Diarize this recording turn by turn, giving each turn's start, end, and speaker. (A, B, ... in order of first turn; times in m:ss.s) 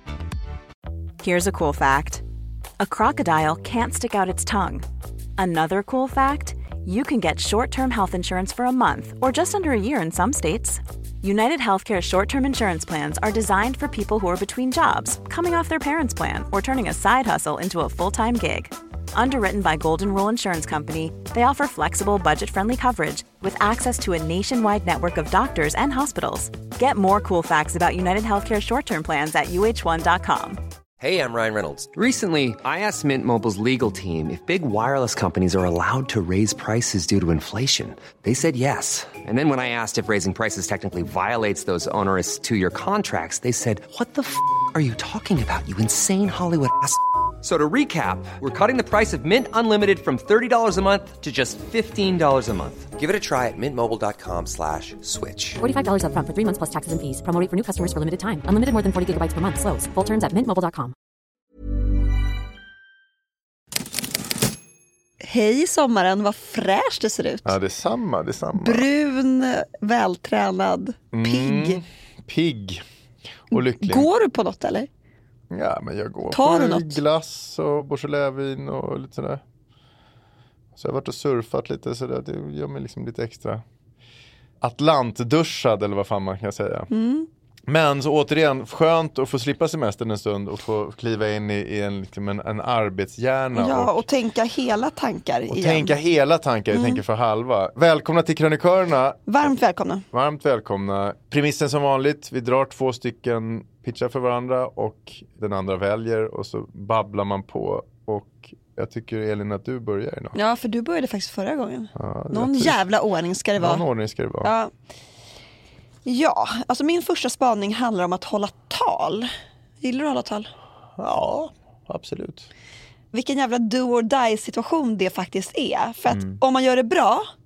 0:01.2-0:02.2 A
0:02.8-0:04.8 A
0:05.4-0:30.6 A
0:31.0-0:55.6 B
0:55.6-1:00.9 C
1:05.2-1:07.5 D
1:07.4-1:08.8 E
1:08.6-1:11.8 D
1:11.1-1:12.8 E
1:13.5-1:14.1 E
1:13.5-1:14.9 D
1:15.5-1:19.4 E
1:16.3-1:17.0 D
1:20.8-1:23.6 E
1:24.6-1:26.9 E
1:26.9-1:27.3 D
1:27.7-1:34.0 E
1:33.5-1:36.0 D
1:35.5-1:39.5 E
1:36.7-1:37.0 D
1:39.3-1:40.0 D
1:40.1-1:50.3 E
1:50.3-1:53.8 D
1:51.9-1:52.8 E
1:53.6-1:54.5 E
1:54.4-1:54.7 D
1:56.0-1:59.3 D
1:59.8-2:00.5 D
2:01.0-2:02.5 E
2:03.1-2:07.3 D
2:06.1-2:06.4 E